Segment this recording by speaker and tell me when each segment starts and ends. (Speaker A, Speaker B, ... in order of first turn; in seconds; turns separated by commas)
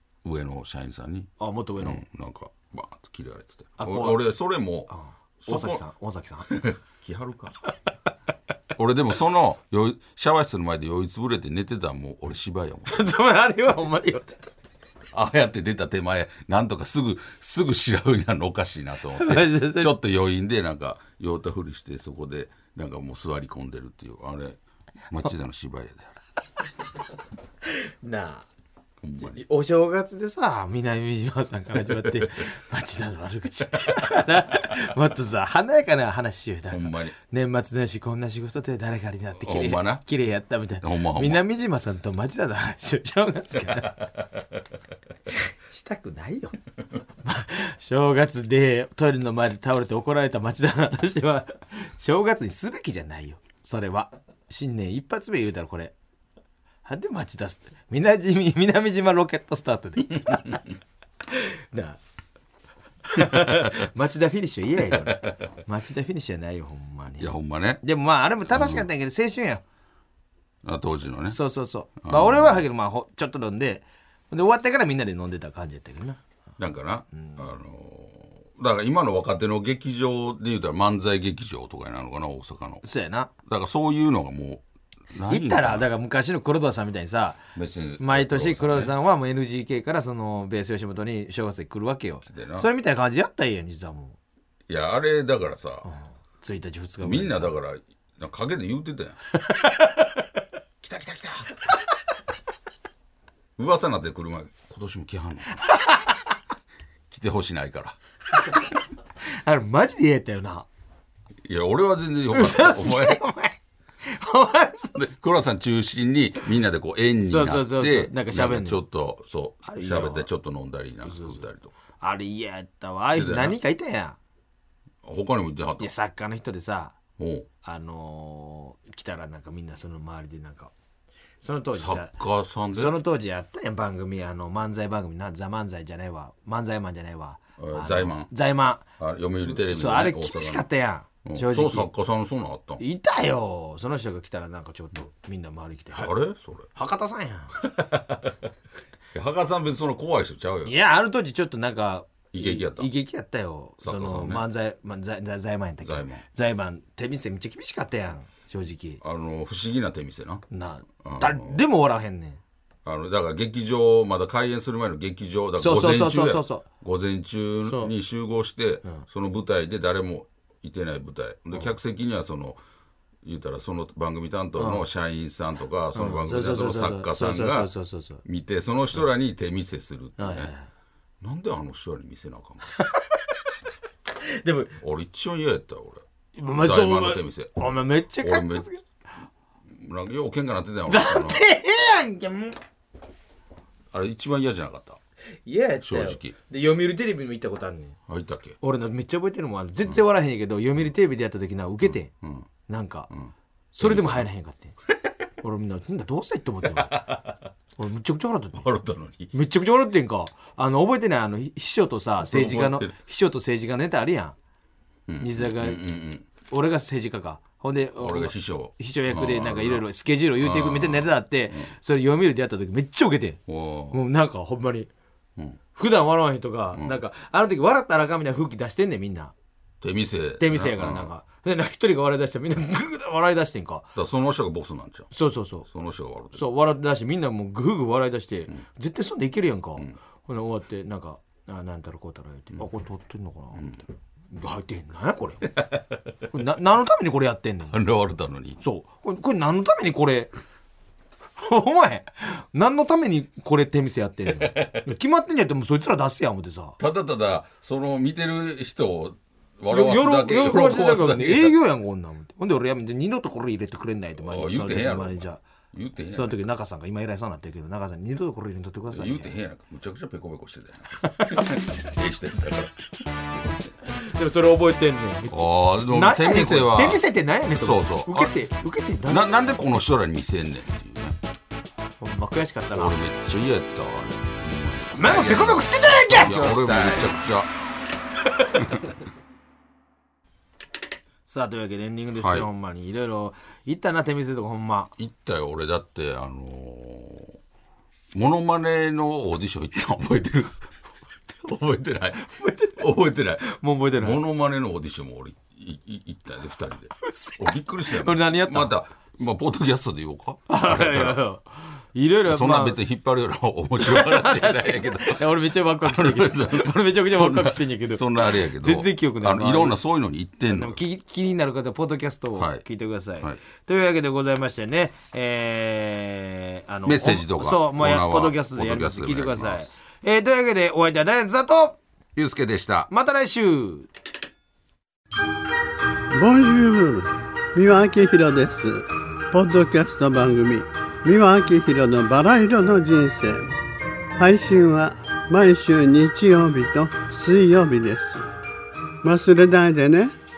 Speaker A: 0.2-5.8, Speaker B: 1.4-2.0, Speaker B: 3.8-4.2, Speaker B: 4.9-6.5, Speaker A: 6.5-7.6, Speaker A: 8.8-13.0, Speaker B: 12.9-14.4, Speaker A: 15.1-24.6, Speaker B: 19.1-19.9, Speaker A: 25.1-26.2, Speaker B: 27.6-28.5, Speaker A: 29.0-29.4, Speaker B: 29.2-44.0, Speaker A: 36.7-37.1, Speaker A: 39.4-40.0, Speaker A: 40.8-41.4, Speaker B: 45.7-46.6, Speaker B: 47.2-55.9, Speaker B: 56.9-60.6, Speaker B: 61.3-62.0, Speaker B: 63.1-69.6, Speaker A: 67.2-67.8, Speaker A: 68.5-68.9, Speaker A: 70.6-71.4, Speaker B: 71.3-76.2, Speaker A: 72.0-72.7, Speaker A: 76.6-82.8, Speaker B: 77.1-77.4, Speaker B: 82.8-83.3, Speaker A: 83.4-85.9, Speaker B: 85.3-87.4, Speaker A: 87.5-88.9, Speaker B: 88.0-94.2, Speaker A: 92.3-92.7, Speaker A: 94.7-95.9, Speaker B: 95.9-97.5, Speaker A: 97.0-99.2, Speaker B: 99.5-100.2, Speaker A: 100.8-101.5, Speaker A: 103.6-105.6, Speaker B: 105.6-106.1, Speaker A: 107.1-108.0, Speaker B: 109.3-110.7, Speaker A: 111.5-113.2, Speaker B: 112.3-115.1, Speaker A: 115.0-121.7, Speaker B: 117.2-118.8, Speaker B: 119.6-120.3, Speaker B: 121.0-121.5, Speaker B: 122.0-124.2, Speaker A: 123.2-123.6, Speaker A: 125.0-125.9, Speaker B: 125.8-127.0, Speaker A: 127.2-127.5, Speaker B: 127.6-130.7, Speaker B: 131.4-132.1, Speaker A: 131.8-133.0, Speaker B: 132.7-138.8, Speaker A: 137.6-138.3, Speaker A: 139.0-140.7, Speaker B: 139.5-141.9, Speaker A: 141.2-142.8, Speaker B: 142.8-146.1, Speaker A: 146.0-146.7, Speaker B: 146.8-147.6, Speaker A: 147.6-148.3, Speaker A: 149.1-150.7, Speaker B: 150.7-159.0, Speaker A: 152.3-152.9, Speaker A: 153.8-154.4, Speaker A: 155.8-156.2, Speaker A: 159.0-160.5, Speaker B: 160.5-162.4, Speaker A: 161.0-161.6, Speaker A: 162.8-172.6, Speaker B: 165.6-166.7, Speaker B: 167.6-167.9, Speaker A: 173.2-177.7, Speaker B: 174.6-174.8, Speaker B: 175.9-178.2, Speaker A: 178.2-180.5, Speaker B: 180.2-180.7, Speaker A: 181.2-182.7, Speaker B: 182.7-183.2, Speaker B: 184.2-184.8, Speaker A: 184.8-188.7, Speaker B: 186.4-188.8, Speaker A: 189.7-191.4, Speaker B: 190.9-192.6, Speaker A: 193.9-195.0, Speaker B: 195.5-198.0, Speaker A: 195.8-196.3, Speaker A: 198.1-198.6, Speaker B: 198.6-202.1, Speaker A: 201.9-202.5, Speaker B: 202.7-203.1, Speaker A: 203.1-204.3, Speaker B: 203.7-204.8, Speaker B: 205.4-207.0, Speaker A: 206.7-207.4, Speaker B: 207.8-208.7, Speaker A: 208.6-209.3, Speaker B: 209.3-214.4, Speaker A: 212.2-212.9, Speaker A: 215.1-216.3, Speaker B: 215.2-215.8, Speaker B: 216.5-223.4, Speaker A: 218.0-219.9, Speaker A: 220.4-221.7, Speaker A: 223.5-224.0, Speaker B: 223.9-224.9, Speaker B: 225.8-229.3, Speaker A: 226.7-227.0, Speaker A: 229.8-231.1, Speaker B: 230.4-233.9, Speaker A: 233.9-235.1, Speaker B: 235.1-235.7, Speaker A: 235.7-236.5, Speaker B: 236.3-245.5, Speaker A: 243.6-243.8, Speaker B: 246.3-247.8, Speaker A: 247.7-248.6, Speaker B: 248.6-250.3, Speaker B: 251.4-256.8, Speaker A: 254.4-254.8, Speaker A: 256.8-261.6, Speaker B: 259.7-265.4, Speaker A: 264.2-266.4, Speaker B: 266.1-269.3, Speaker A: 268.9-272.8, Speaker B: 271.0-271.5, Speaker B: 274.0-279.5, Speaker A: 275.3-277.1, Speaker A: 277.6-278.4, Speaker A: 279.1-281.2, Speaker B: 282.0-283.0, Speaker A: 282.8-287.5, Speaker B: 284.9-287.1, Speaker B: 291.3-294.9, Speaker A: 292.2-292.5, Speaker A: 295.0-297.4, Speaker A: 298.1-303.4, Speaker B: 302.2-304.2, Speaker A: 304.0-311.2, Speaker B: 307.0-308.7, Speaker B: 310.5-312.8, Speaker A: 312.3-315.3, Speaker B: 313.8-319.8, Speaker A: 315.8-320.8, Speaker B: 320.5-331.8, Speaker A: 322.4-322.6, Speaker A: 326.9-329.8, Speaker A: 332.2-332.9, Speaker B: 332.9-333.9, Speaker C: 336.1-343.5, Speaker C: 344.2-348.3, Speaker C: 349.0-350.1